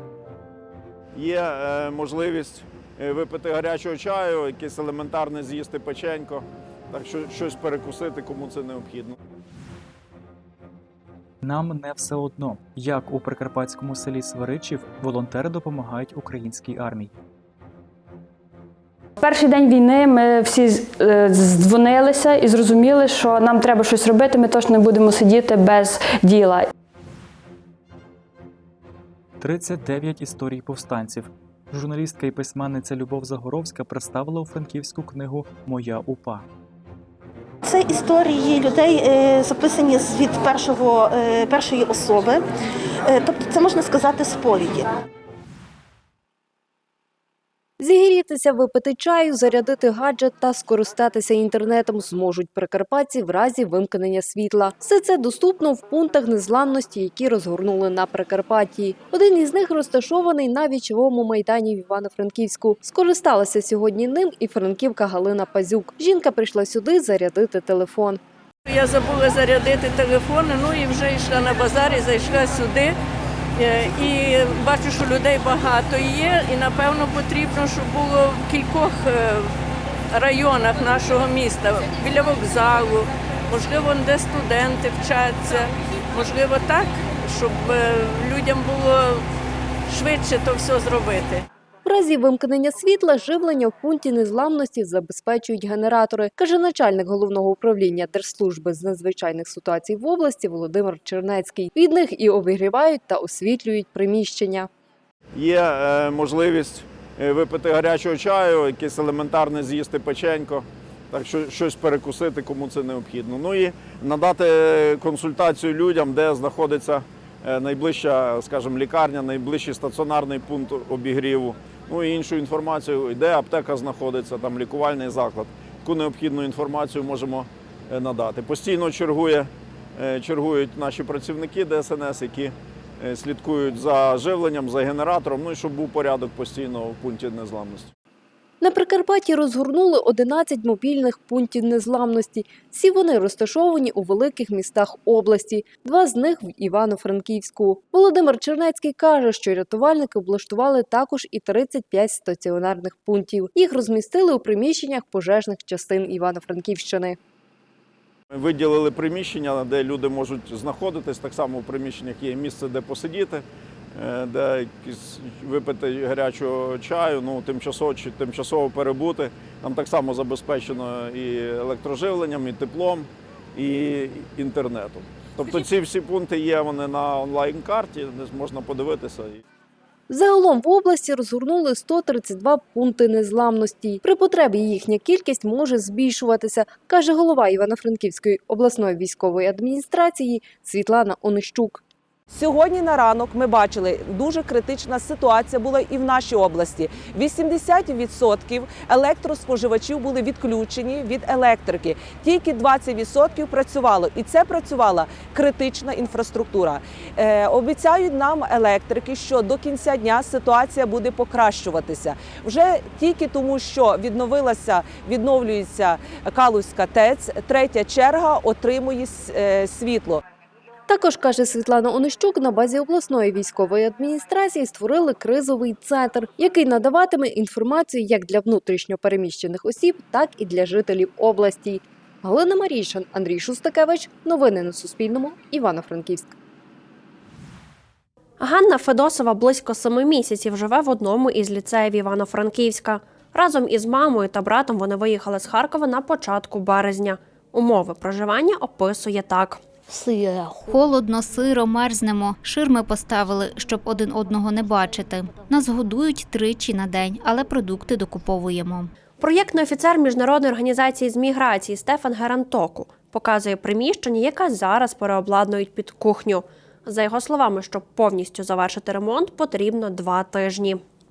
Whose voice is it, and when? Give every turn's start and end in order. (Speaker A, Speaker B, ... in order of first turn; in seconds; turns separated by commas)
Speaker A: 1.1-9.1, Speaker B: 11.4-17.1, Speaker C: 19.2-26.7, Speaker B: 29.4-36.4, Speaker D: 37.6-42.4, Speaker D: 43.0-44.9, Speaker E: 47.8-68.2, Speaker F: 68.7-72.9, Speaker F: 73.6-79.5, Speaker F: 80.1-89.2, Speaker F: 89.9-91.4, Speaker E: 91.8-104.7, Speaker A: 105.3-137.9, Speaker E: 138.6-157.2, Speaker A: 158.3-163.4, Speaker A: 163.9-179.4, Speaker E: 180.1-191.8, Speaker G: 192.3-220.2, Speaker E: 220.9-236.3, Speaker H: 238.4-249.6, Speaker I: 250.7-258.9, Speaker H: 259.2-270.8